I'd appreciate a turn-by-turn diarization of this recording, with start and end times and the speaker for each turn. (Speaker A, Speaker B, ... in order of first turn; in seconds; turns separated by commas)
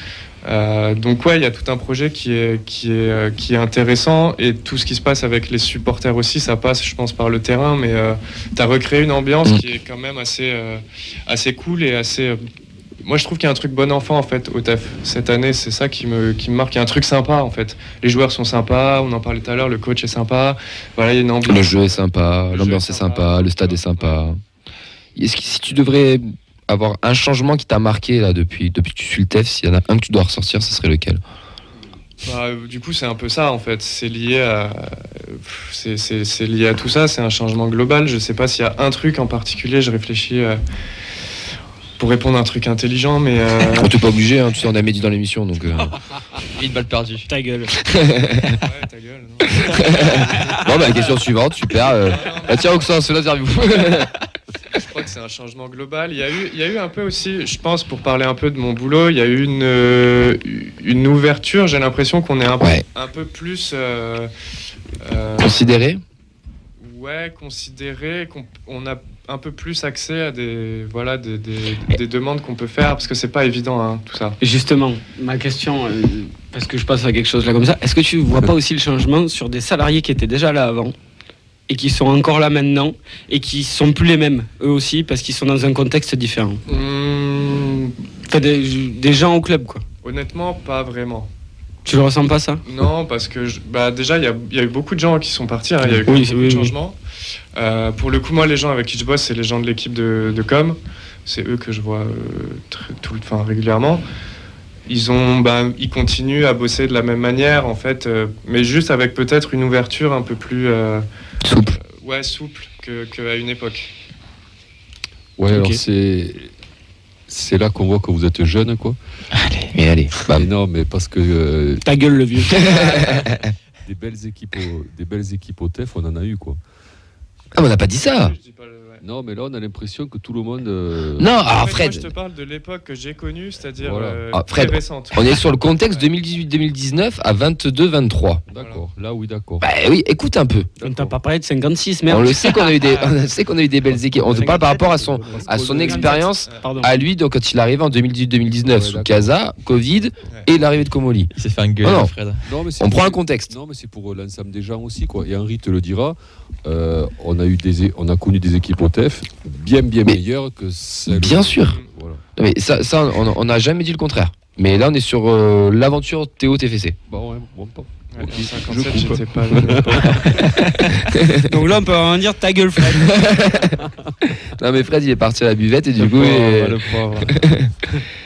Speaker A: 0.4-12.4, Speaker A: 13.0-24.3, Speaker B: 21.4-24.4, Speaker B: 25.1-31.2, Speaker A: 32.2-40.6, Speaker A: 42.0-44.0, Speaker B: 43.6-45.9, Speaker C: 46.5-47.3, Speaker D: 47.2-47.8, Speaker B: 47.9-48.5, Speaker A: 48.5-50.7, Speaker B: 49.6-54.1, Speaker A: 51.8-52.9, Speaker A: 54.7-64.3, Speaker A: 65.0-65.7, Speaker B: 65.4-66.0, Speaker A: 66.8-74.4, Speaker D: 74.4-81.0, Speaker D: 81.7-86.6, Speaker A: 86.7-87.9, Speaker D: 88.3-89.8, Speaker A: 90.0-91.3, Speaker D: 91.8-92.6, Speaker A: 92.6-97.0, Speaker D: 95.9-96.8, Speaker A: 97.5-104.0, Speaker A: 104.9-111.0, Speaker B: 111.4-111.8, Speaker A: 111.5-113.9, Speaker E: 115.4-116.5, Speaker D: 115.5-115.8, Speaker E: 117.3-119.0, Speaker C: 119.3-119.7, Speaker B: 119.7-120.5, Speaker E: 120.3-121.8, Speaker D: 121.8-122.7, Speaker B: 122.5-123.4, Speaker A: 122.6-123.4, Speaker E: 122.7-123.2, Speaker E: 123.8-126.6, Speaker B: 127.5-128.3, Speaker A: 127.9-129.0, Speaker E: 129.0-131.3, Speaker B: 131.2-132.1, Speaker A: 131.4-136.1, Speaker E: 133.8-134.3, Speaker B: 134.3-138.4, Speaker E: 138.5-139.7, Speaker A: 138.6-138.8, Speaker B: 139.6-140.7, Speaker E: 140.8-141.2, Speaker D: 140.8-143.3, Speaker B: 142.1-152.1, Speaker E: 143.9-144.6, Speaker D: 144.3-147.0, Speaker E: 145.2-146.1, Speaker E: 148.6-149.4, Speaker C: 151.3-152.4, Speaker E: 152.4-162.2, Speaker B: 152.8-153.5, Speaker B: 161.1-161.8, Speaker B: 162.4-167.0, Speaker E: 167.1-171.0, Speaker A: 168.1-170.5, Speaker B: 171.1-171.4, Speaker D: 171.4-173.2, Speaker B: 173.0-173.8, Speaker B: 174.5-177.7, Speaker C: 176.2-177.3